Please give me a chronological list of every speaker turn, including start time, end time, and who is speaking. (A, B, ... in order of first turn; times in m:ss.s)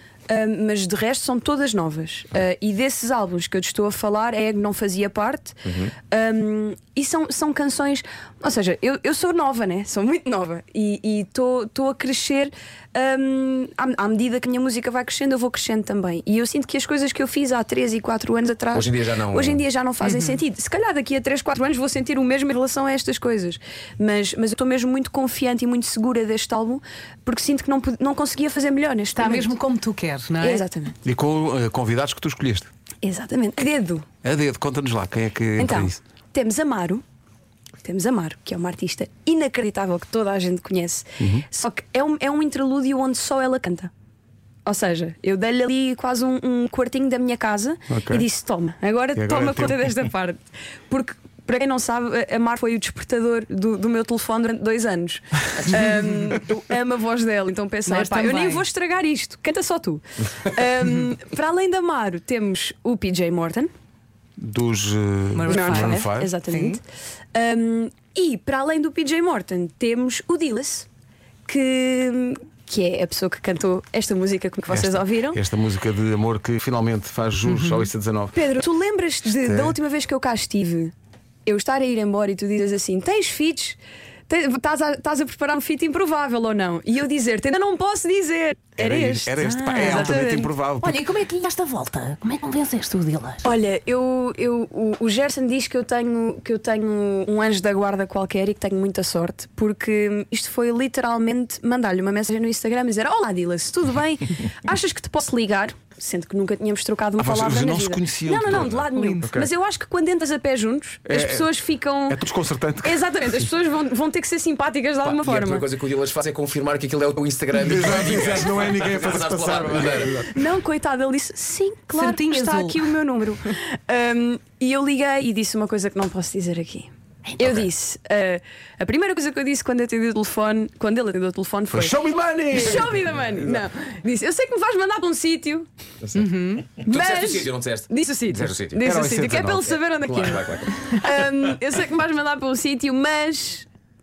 0:00.3-0:29.6 A
0:05.6-0:05.9 B
0:18.7-0:19.6 B
0:20.0-0:20.4 C
0:29.1-0:30.6 C
0:30.4-0:31.0 A
0:31.0-0:32.7 D
0:33.0-0:34.0 A
0:34.2-0:36.0 D
0:35.6-0:37.0 A
0:37.8-0:43.9 A
0:41.2-0:41.4 D
0:44.6-1:03.7 A
0:47.9-0:48.2 D
0:49.2-0:50.0 D
0:57.8-0:58.6 C
1:04.4-1:06.3 D
1:05.3-1:06.0 C
1:05.4-1:06.8 A
1:06.5-1:06.8 C
1:07.3-1:10.9 A
1:11.4-1:15.4 A
1:14.7-1:18.4 D
1:17.5-1:17.9 C
1:18.3-1:20.9 A
1:19.2-1:19.8 D
1:21.4-1:30.5 A
1:28.8-1:31.0 D
1:29.8-1:30.2 C
1:30.8-1:33.4 C
1:33.4-1:52.2 A
1:47.2-1:49.5 D
1:48.9-1:49.2 C
1:51.0-1:51.5 D
1:52.1-1:53.0 D
1:52.8-1:55.7 A
1:55.0-2:00.2 B
1:57.6-2:00.3 D
2:00.3-2:12.0 A
2:01.9-2:02.8 C
2:11.7-2:13.0 D
2:12.5-2:15.7 A
2:16.0-2:18.8 B
2:16.1-2:16.7 C
2:16.8-2:23.7 A
2:18.8-2:19.7 D
2:20.0-2:20.7 B